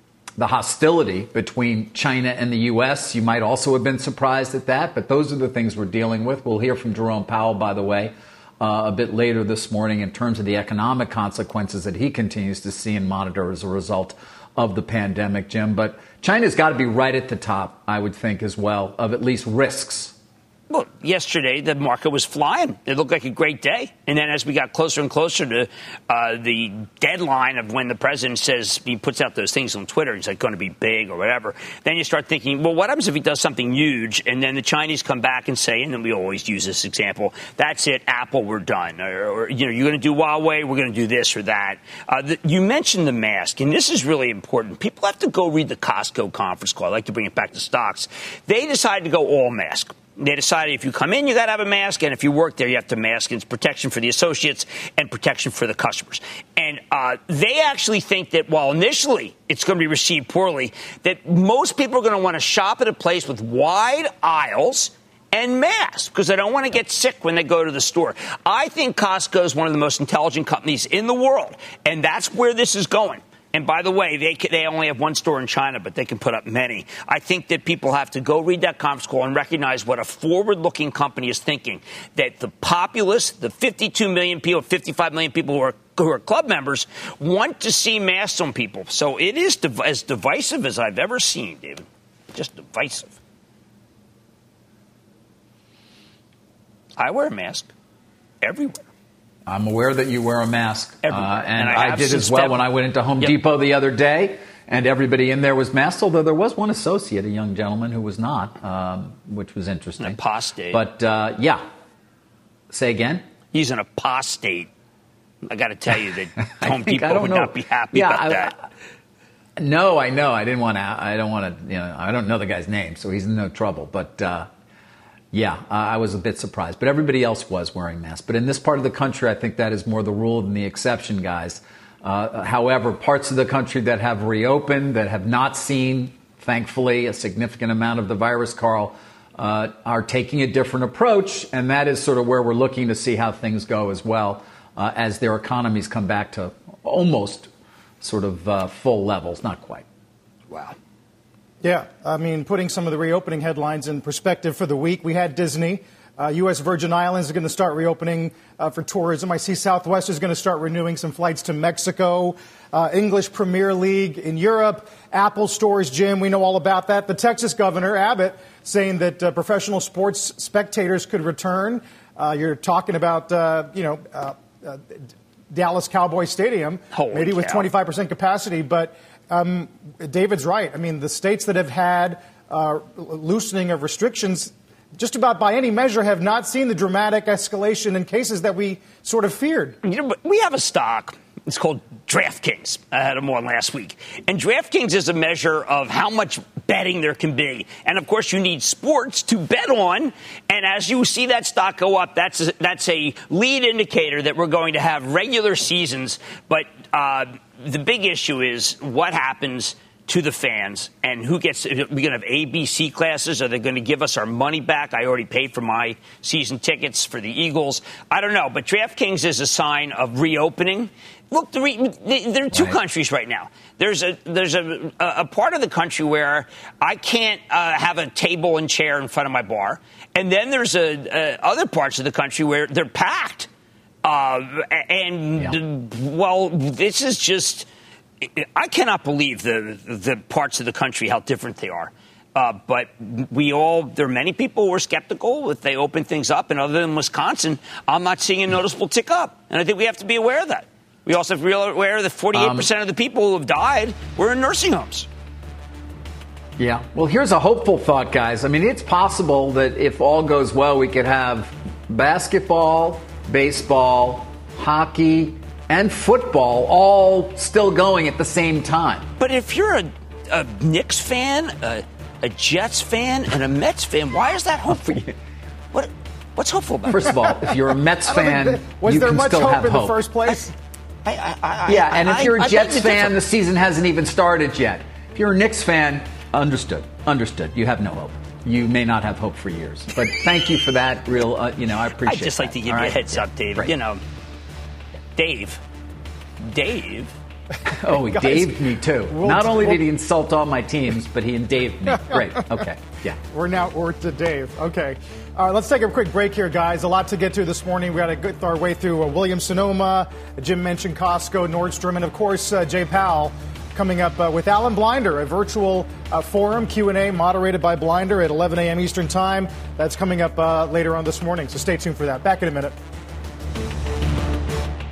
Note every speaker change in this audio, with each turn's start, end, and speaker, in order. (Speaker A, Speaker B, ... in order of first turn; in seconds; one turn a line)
Speaker A: 0.4-20.1
Speaker B: 20.7-93.1
Speaker B: 97.0-97.7
Speaker B: 98.4-98.8
Speaker A: 99.5-110.2
Speaker B: 101.0-102.6
Speaker B: 110.0-110.8
Speaker A: 110.7-111.6
Speaker A: 112.7-113.2
Speaker B: 113.5-114.7
Speaker B: 115.5-118.5
Speaker A: 116.6-118.7
Speaker A: 119.6-124.5
Speaker A: 125.3-147.5
Speaker A: 148.0-149.9
Speaker C: 151.6-175.0
Speaker C: 175.5-189.8
Speaker B: 176.9-177.7
Speaker B: 189.8-233.5
Speaker A: 222.5-222.8
Speaker B: 234.0-237.7
Speaker B: 238.2-255.1
Speaker A: 252.3-252.7
Speaker A: 256.6-269.1
Speaker B: 269.2-275.0
Speaker A: 274.7-275.1
Speaker B: 275.7-277.1
Speaker A: 276.9-280.0
Speaker C: 278.1-280.5
Speaker B: 281.1-283.2
Speaker A: 281.7-293.7
Speaker B: 292.0-294.0
Speaker B: 295.1-295.6
Speaker B: 296.4-297.1
Speaker A: 297.7-303.2
Speaker C: 297.9-299.9
Speaker C: 302.0-302.5
Speaker C: 303.2-322.8